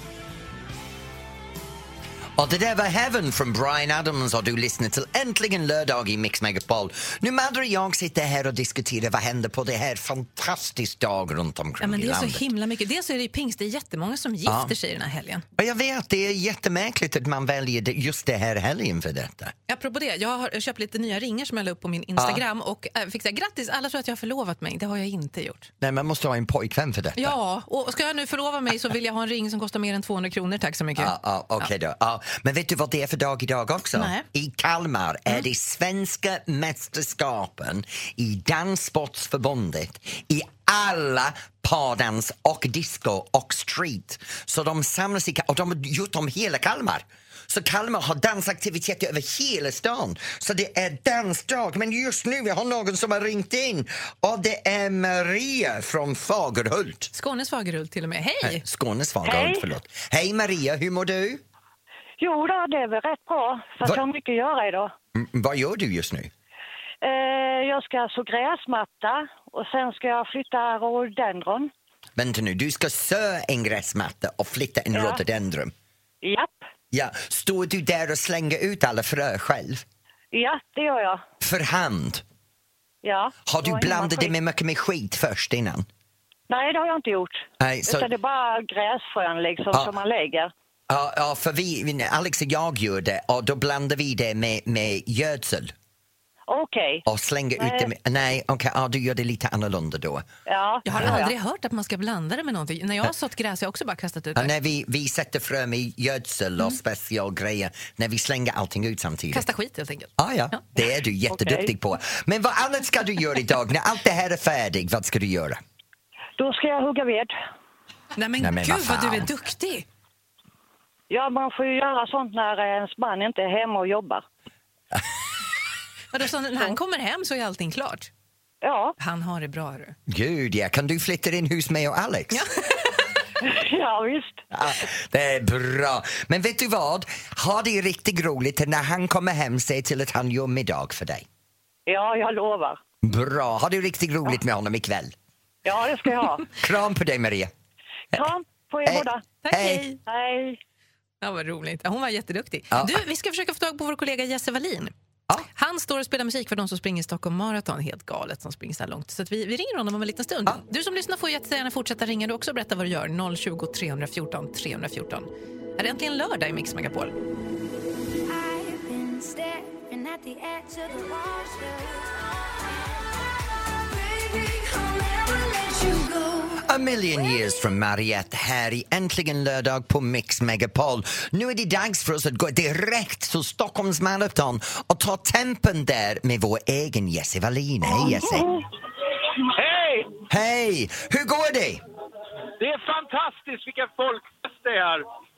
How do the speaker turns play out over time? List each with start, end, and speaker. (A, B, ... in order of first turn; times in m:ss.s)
0:02.4-0:12.4 A
0:11.8-0:15.4 B
0:14.4-0:14.7 A
0:15.6-0:19.5 A
0:19.7-0:25.7 B
0:22.2-0:22.4 A
0:25.8-0:27.3 A
0:27.2-0:31.7 B
0:31.0-0:57.1 A
0:34.0-0:34.2 B
0:57.1-0:58.6 B
0:58.4-1:01.4 A
0:59.2-0:59.6 C
1:02.2-1:04.9 C
1:05.1-1:06.3 A
1:07.0-1:11.7 C
1:12.2-1:15.7 A
1:14.9-1:15.2 C
1:16.2-1:16.6 C
1:16.9-1:19.8 A
1:20.3-1:21.2 C
1:21.4-1:22.2 A
1:23.0-1:24.3 C
1:23.4-1:25.9 A
1:26.5-1:30.5 C
1:27.6-1:28.1 A
1:30.9-1:35.7 A
1:36.5-1:37.0 C
1:37.0-1:40.2 A
1:37.6-1:37.9 C
1:40.5-1:41.3 C
1:40.8-1:44.5 B
1:40.9-1:41.2 A
1:44.4-1:49.5 A
1:49.3-1:50.6 B
1:50.2-1:55.6 A
1:51.3-1:51.7 C
1:56.4-1:57.3 C
1:58.2-1:59.8 B
1:58.4-1:59.3 A
2:01.1-2:04.2 C
2:06.1-2:08.1 B
2:08.6-2:08.9 C
2:09.0-2:10.0 B
2:10.1-2:12.4 A
2:12.3-2:12.9 B
2:13.4-2:14.4 C
2:14.5-2:21.2 A
2:21.9-2:22.8 C
2:23.0-2:25.1 A
2:25.6-2:26.5 C
2:26.5-2:27.5 A
2:28.1-2:29.2 C
2:28.8-2:29.8 A
2:29.4-2:30.0 B
2:30.0-2:30.6 C
2:31.2-2:34.9 B
2:32.7-2:33.0 A
2:35.5-2:47.1 B
2:48.3-2:53.0 D
2:53.7-2:56.6 D
2:56.6-3:08.6 A
3:09.4-3:10.2 E
3:10.3-3:11.8 A
3:12.6-3:15.0 E